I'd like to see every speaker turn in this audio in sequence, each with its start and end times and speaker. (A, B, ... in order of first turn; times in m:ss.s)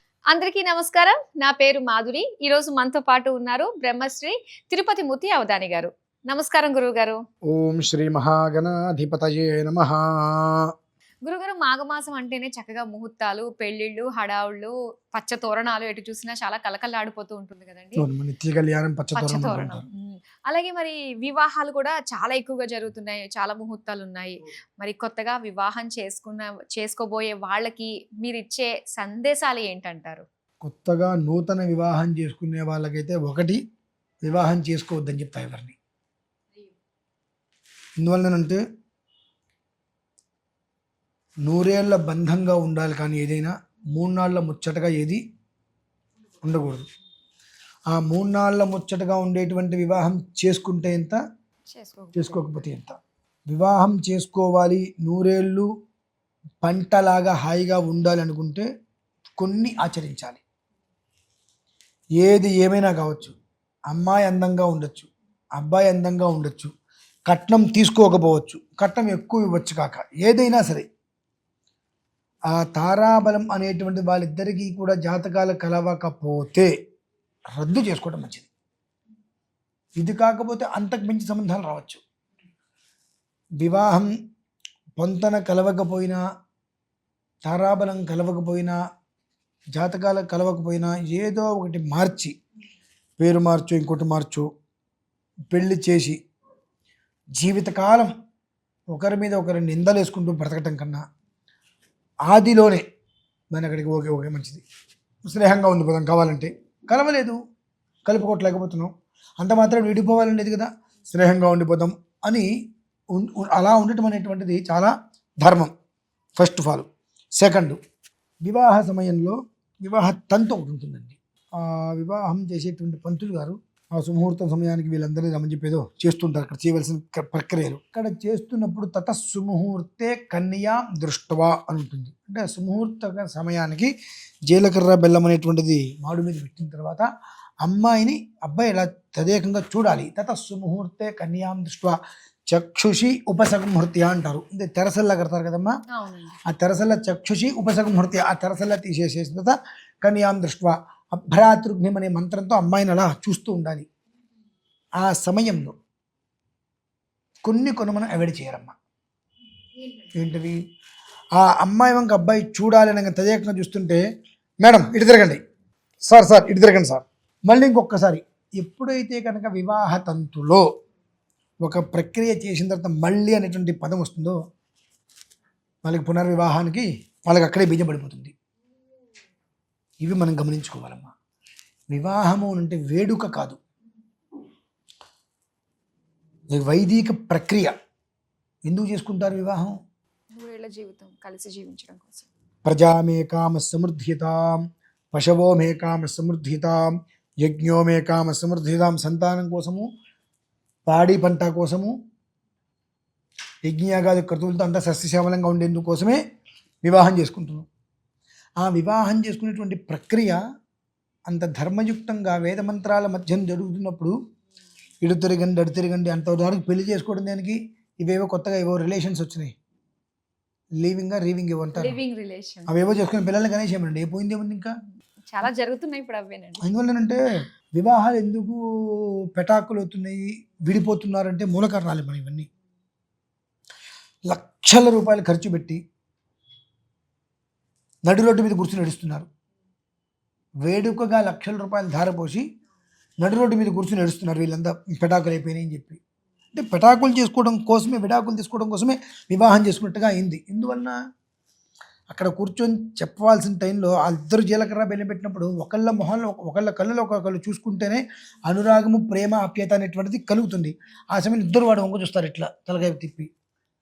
0:00.3-0:07.2 A
0:07.5-0:10.7 B
0:11.3-0:18.0 A
0:18.0-0:19.9 B
0:19.1-0:30.2 A
0:30.6-0:33.6 B
0:34.2-0:35.8 B
0:38.0-0:38.6 B
0:41.4-0:45.2 B
0:46.4-0:46.9 B
0:47.9-0:51.2 B
0:51.7-0:52.6 A
0:52.2-0:53.0 B
0:53.5-0:55.7 B
0:56.6-0:58.7 B
0:59.4-1:00.4 B
1:02.2-1:03.4 B
1:03.9-1:06.7 B
1:07.3-1:10.9 B
1:12.5-1:16.7 B
1:17.6-1:18.5 B
1:20.0-1:22.0 B
1:23.6-1:24.1 B
1:25.0-1:26.2 B
1:27.4-1:28.8 B
1:29.8-1:32.3 B
1:33.2-1:34.5 B
1:35.5-1:36.2 B
1:37.4-1:38.1 B
1:38.9-1:41.0 B
1:42.3-1:42.8 B
1:43.5-1:44.6 B
1:45.2-1:47.4 B
1:48.1-1:52.5 B
1:53.1-1:55.7 B
1:56.4-1:56.9 B
1:57.4-1:57.8 B
1:58.4-2:13.9 B
2:14.5-2:17.1 B
2:17.6-2:22.0 B
2:22.5-2:25.7 B
2:25.9-2:26.4 A
2:26.5-2:33.9 B
2:35.0-2:35.8 B
2:37.4-2:38.8 B
2:40.2-2:40.6 B
2:41.4-2:44.0 B
2:44.6-2:45.4 B
2:46.1-2:50.6 B
2:51.6-2:54.4 B
2:55.8-2:58.3 B
3:00.0-3:01.1 B
3:01.9-3:03.6 B
3:06.5-3:07.7 B
3:08.7-3:09.8 B
3:10.3-3:12.3 A
3:12.6-3:14.6 B
3:15.1-3:16.9 B
3:17.4-3:19.9 B
3:20.9-3:21.9 B
3:23.7-3:26.2 B
3:26.8-3:27.7 B
3:28.6-3:30.4 B
3:31.3-3:34.1 B
3:35.0-3:39.5 B
3:40.8-3:42.0 B
3:41.8-3:42.7 A
3:42.7-3:44.7 B
3:45.3-3:46.6 A
3:46.6-3:47.2 B
3:47.8-3:52.5 B
3:54.3-3:55.8 B
3:58.1-3:59.3 B
4:00.6-4:02.4 B
4:03.2-4:06.0 B
4:06.5-4:11.0 B
4:12.1-4:23.3 B